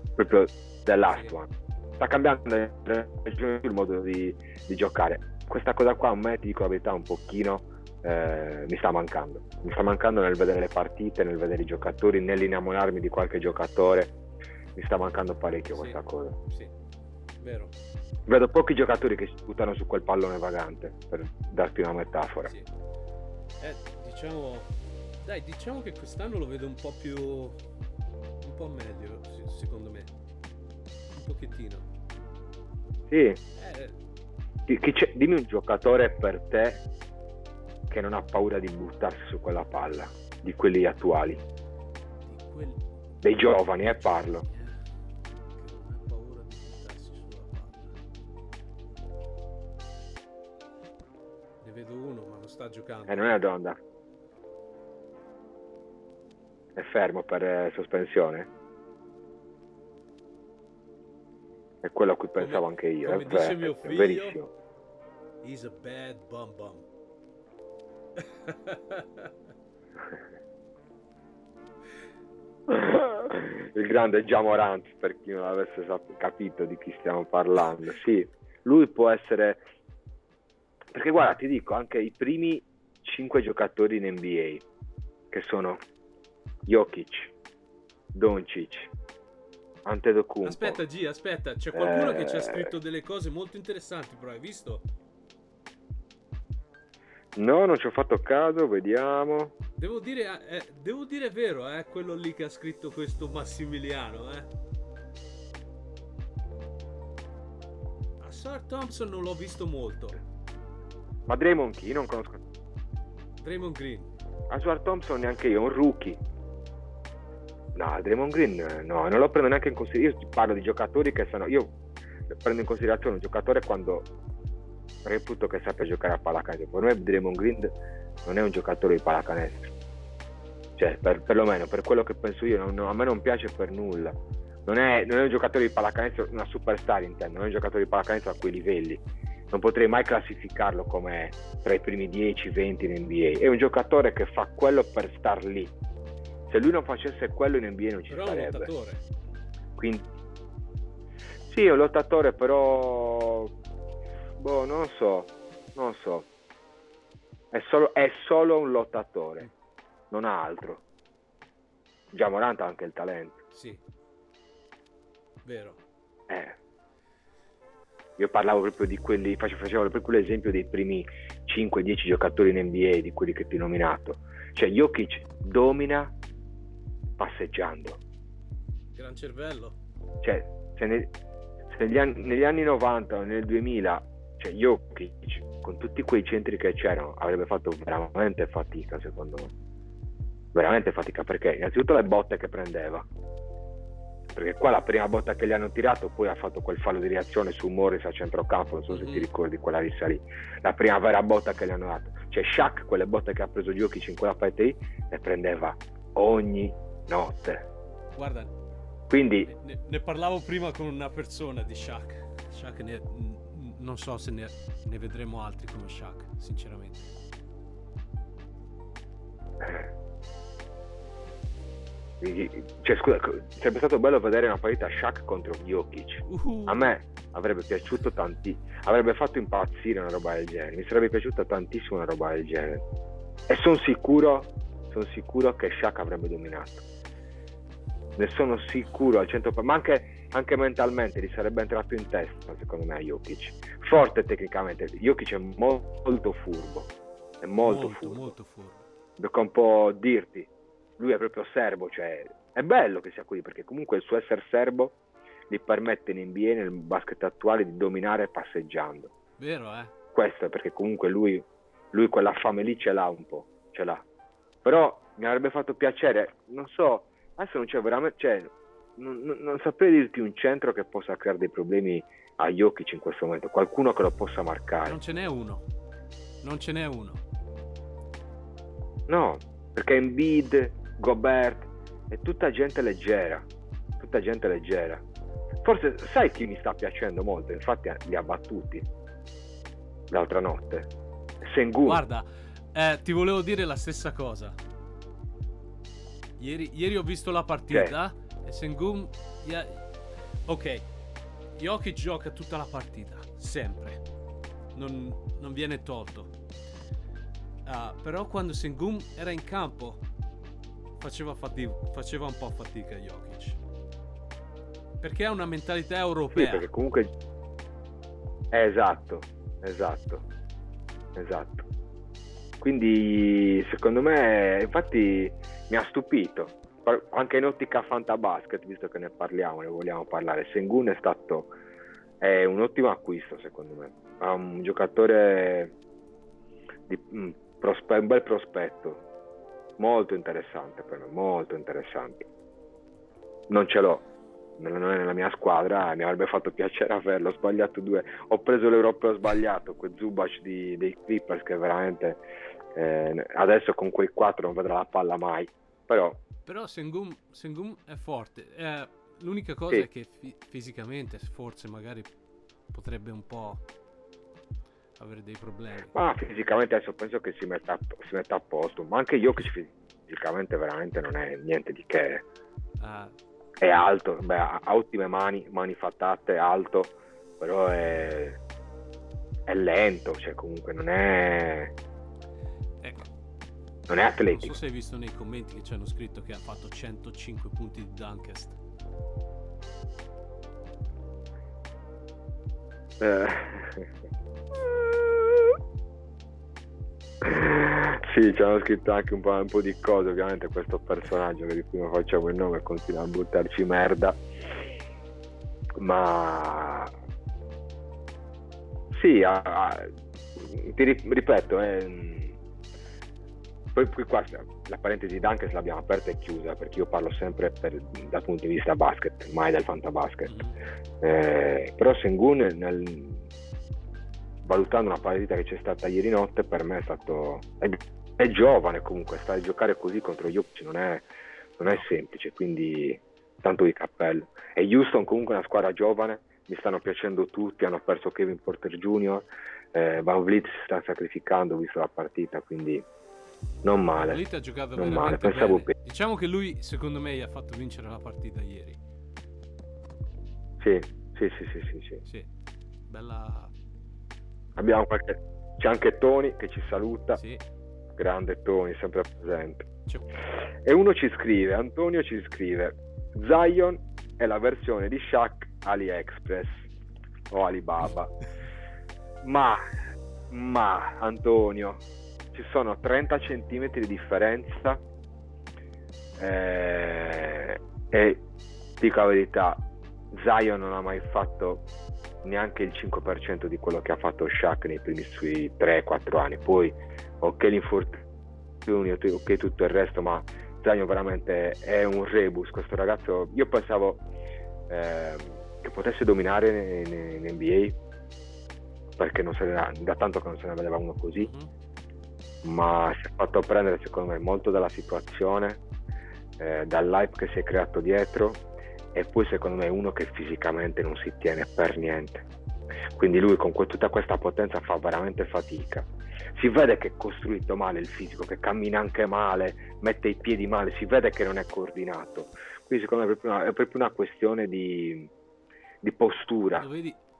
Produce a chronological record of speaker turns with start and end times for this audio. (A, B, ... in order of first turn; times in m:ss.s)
0:00.2-0:14.2 A
0:01.1-0:01.3 B
0:14.8-0:16.4 A
0:17.4-0:17.7 B
0:18.3-0:22.5 A
0:23.6-0:27.6 B
0:28.4-0:30.1 B
0:31.1-0:31.9 B
0:33.1-0:33.4 A
0:33.6-0:34.0 B
0:34.7-0:36.8 A
0:37.9-0:41.4 A
0:42.2-0:42.8 B
0:43.2-0:44.4 A
0:43.8-0:44.8 B
0:45.6-0:48.0 B
0:51.6-0:53.5 B
0:53.1-0:53.8 A
0:56.8-0:58.5 A
1:01.8-1:04.5 A
1:02.4-1:04.4 B
1:05.4-1:06.9 B
1:08.2-1:09.3 B
1:12.7-1:19.6 A
1:20.9-1:24.6 A
1:25.3-1:25.8 A
1:26.7-1:27.3 A
1:28.1-1:28.9 A
1:29.8-1:30.8 A
1:30.4-1:34.8 B
1:31.7-1:32.7 A
1:37.3-1:39.5 A
1:39.8-1:44.5 B
1:48.2-1:50.2 B
1:51.3-1:52.4 A
1:53.4-1:54.1 B
1:54.5-1:56.2 A
1:57.7-2:01.7 A
2:02.3-2:04.1 A
2:05.0-2:09.7 A
2:10.8-2:14.1 A
2:14.6-2:25.7 A
2:26.5-2:28.7 A
2:28.1-2:29.0 B
2:29.8-2:30.1 A
2:31.5-2:33.5 A
2:34.4-2:36.3 A
2:37.5-2:39.5 A
2:40.1-2:40.8 A
2:42.1-2:43.4 A
2:43.5-2:43.8 B
2:45.4-2:45.8 B
2:46.3-2:46.6 A
2:48.2-2:56.1 A
2:57.2-2:58.0 A
2:58.9-2:59.8 B
3:00.2-3:01.1 A
3:01.7-3:09.5 A
3:10.5-3:13.0 A
3:14.3-3:27.6 A
3:18.9-3:19.3 B
3:28.1-3:28.5 B
3:29.1-3:29.5 A
3:29.4-3:37.1 B
3:39.6-3:39.9 A
3:42.2-3:52.8 A
3:46.2-3:46.9 B
3:53.5-3:56.8 A
3:58.2-4:08.3 A
4:07.6-4:08.8 B
4:09.2-4:15.0 A
4:15.5-4:19.1 A
4:19.4-4:19.9 B
4:20.1-4:24.0 A
4:24.6-4:35.0 A
4:34.8-4:35.7 B
4:36.4-4:37.2 B
4:39.1-4:43.4 A
4:44.0-4:45.0 A
4:45.6-4:48.8 A
4:50.1-4:52.0 A
4:51.8-4:54.6 B
4:56.4-4:59.8 B
4:57.7-4:58.0 A
5:00.5-5:00.8 B
5:01.6-5:04.0 B
5:04.7-5:06.3 B
5:07.6-5:10.0 B
5:11.0-5:13.6 B
5:15.0-5:16.7 B
5:16.3-5:17.1 A
5:18.5-5:20.2 A
5:21.2-5:21.6 A
5:22.6-5:31.5 A
5:32.2-5:35.7 A
5:36.9-5:39.0 A
5:39.8-5:42.3 A
5:43.5-5:44.0 A
5:44.6-5:52.2 A
5:52.7-5:56.2 A
5:56.4-6:02.1 B
6:02.7-6:03.6 B
6:05.0-6:05.9 B
6:05.9-6:12.2 A
6:12.8-6:13.1 B
6:13.6-6:18.4 A
6:19.5-6:21.7 A
6:23.9-6:24.6 A
6:24.3-6:28.6 B
6:33.0-6:33.9 A
6:34.5-6:35.6 A
6:37.2-6:44.6 A
6:45.8-6:46.9 A
6:48.9-6:52.4 A
6:53.7-7:00.4 A
7:00.3-7:00.6 B
7:01.0-7:03.2 A
7:04.4-7:11.1 A
7:11.6-7:22.8 A
7:23.6-7:24.2 A
7:24.0-7:28.8 B
7:24.8-7:25.7 A
7:30.6-7:32.0 A
7:32.9-7:33.5 B
7:34.6-7:37.2 A
7:37.1-7:37.4 B
7:38.0-7:39.7 A
7:40.6-7:46.7 A
7:47.3-7:48.1 A
7:49.2-7:49.6 A
7:50.3-7:54.8 A
7:56.2-7:58.2 A
7:58.8-8:01.6 A
8:02.2-8:08.0 A
8:08.6-8:14.0 A
8:14.7-8:17.8 A
8:19.0-8:21.3 A
8:21.2-8:21.5 B
8:22.4-8:25.6 A
8:26.4-8:28.4 A
8:28.9-8:32.2 A
8:32.9-8:45.1 A
8:45.8-8:46.7 A
8:46.6-8:47.0 B